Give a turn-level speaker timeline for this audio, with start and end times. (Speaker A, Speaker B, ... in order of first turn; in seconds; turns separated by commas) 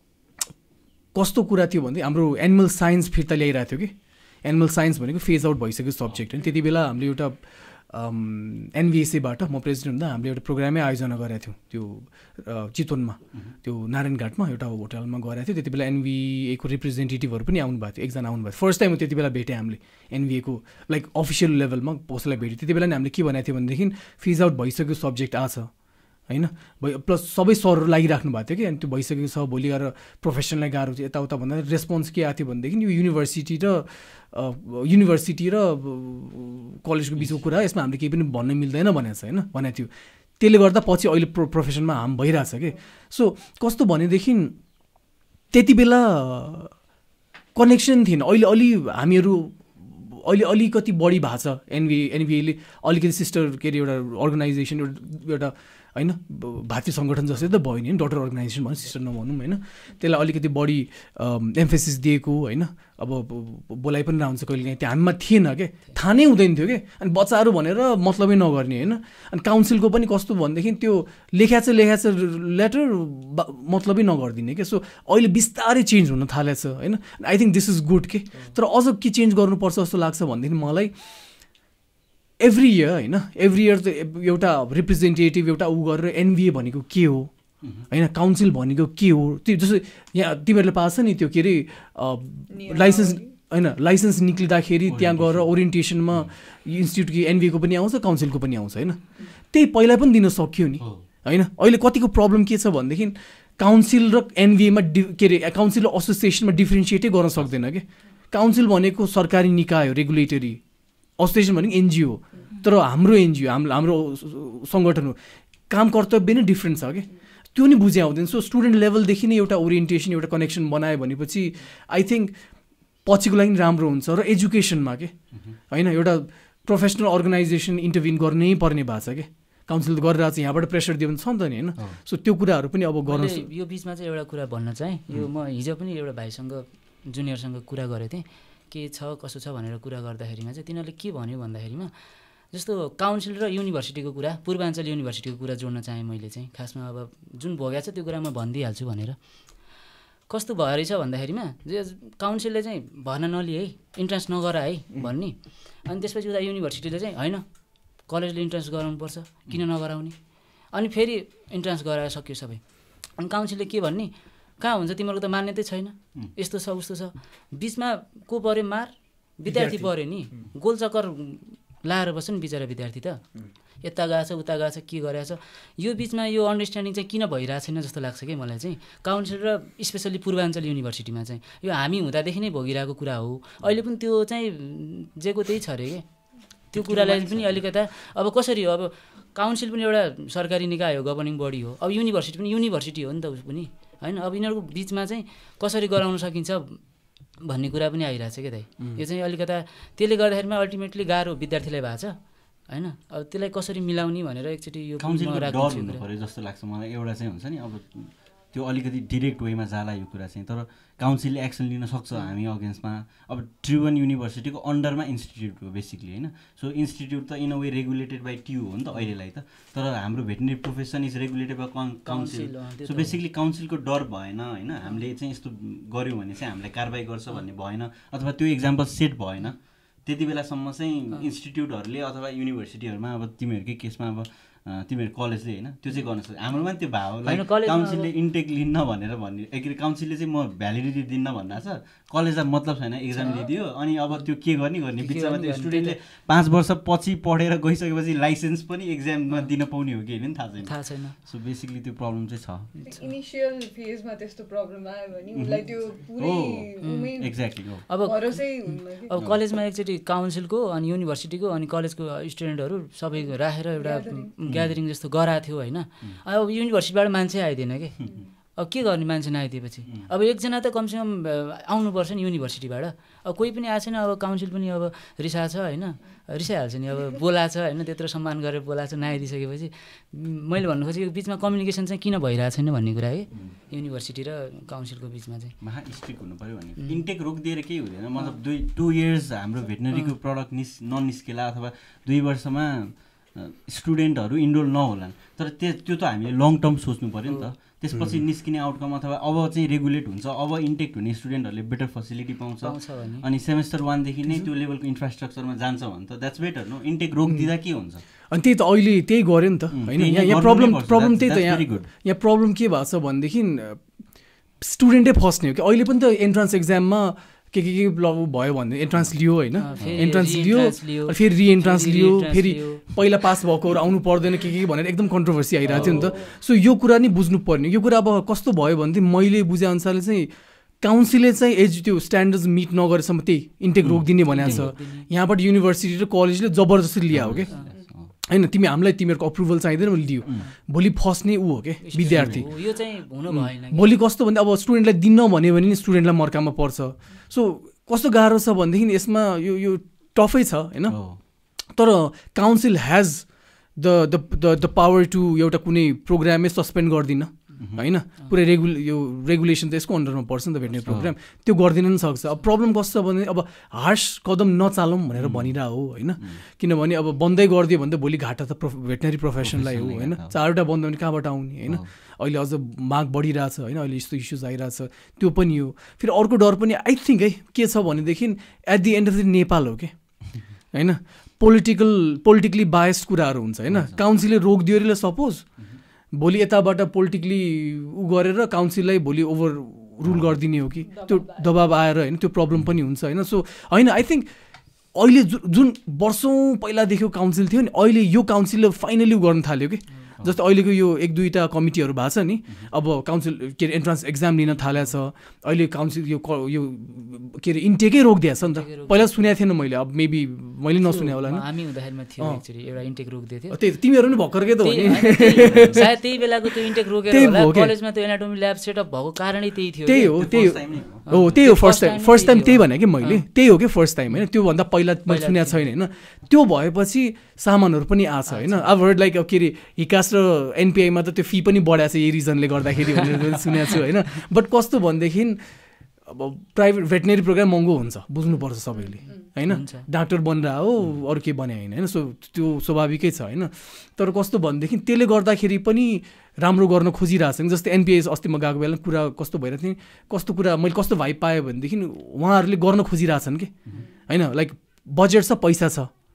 Speaker A: 1.1-25.7, Speaker A: 26.3-44.5, Speaker A: 45.5-46.7, Speaker A: 47.5-80.9, Speaker A: 82.4-99.0, Speaker B: 92.5-93.3, Speaker C: 94.9-95.5, Speaker A: 99.5-110.6, Speaker A: 111.2-115.2, Speaker A: 115.7-122.3, Speaker A: 123.0-133.5, Speaker D: 133.1-141.9, Speaker D: 142.5-149.2, Speaker D: 150.3-157.4, Speaker D: 158.0-160.1, Speaker D: 160.7-173.2, Speaker A: 169.4-169.9, Speaker D: 173.8-186.0, Speaker D: 186.7-196.8, Speaker C: 186.7-187.6, Speaker D: 197.4-206.0, Speaker C: 205.0-252.7, Speaker D: 222.1-223.2, Speaker D: 237.2-238.1, Speaker D: 243.1-243.5, Speaker D: 245.0-246.0, Speaker D: 250.6-251.1, Speaker B: 252.8-257.4, Speaker C: 255.3-256.7, Speaker D: 256.8-285.6, Speaker C: 257.2-257.9, Speaker B: 258.0-259.1, Speaker C: 259.1-259.4, Speaker B: 263.8-264.3, Speaker C: 264.5-264.8, Speaker B: 268.0-268.3, Speaker C: 285.6-308.0, Speaker D: 297.2-297.5, Speaker A: 297.9-298.2, Speaker D: 302.6-303.2, Speaker A: 308.3-313.9, Speaker C: 309.7-311.9, Speaker A: 314.6-337.5, Speaker D: 319.5-322.8, Speaker C: 319.8-320.1, Speaker C: 325.6-326.3, Speaker C: 333.8-334.7, Speaker D: 334.2-335.1, Speaker C: 337.1-338.1, Speaker B: 337.6-337.9, Speaker A: 338.2-342.5, Speaker D: 341.8-343.9, Speaker C: 342.0-342.5, Speaker A: 343.3-351.0, Speaker C: 350.9-351.2, Speaker A: 351.7-385.4, Speaker C: 357.6-357.8, Speaker C: 360.9-361.1, Speaker C: 365.1-365.5, Speaker C: 369.4-370.4, Speaker C: 383.7-384.0, Speaker A: 386.1-394.3, Speaker B: 390.9-391.6, Speaker A: 394.9-411.5, Speaker D: 408.4-409.1, Speaker D: 410.8-413.6, Speaker A: 413.5-416.4, Speaker D: 414.6-420.3, Speaker C: 415.3-415.9, Speaker A: 417.1-417.7, Speaker A: 419.9-435.4, Speaker C: 420.1-421.1, Speaker D: 421.1-423.2, Speaker D: 425.1-425.7, Speaker D: 428.3-428.7, Speaker A: 436.1-455.9, Speaker D: 439.4-439.9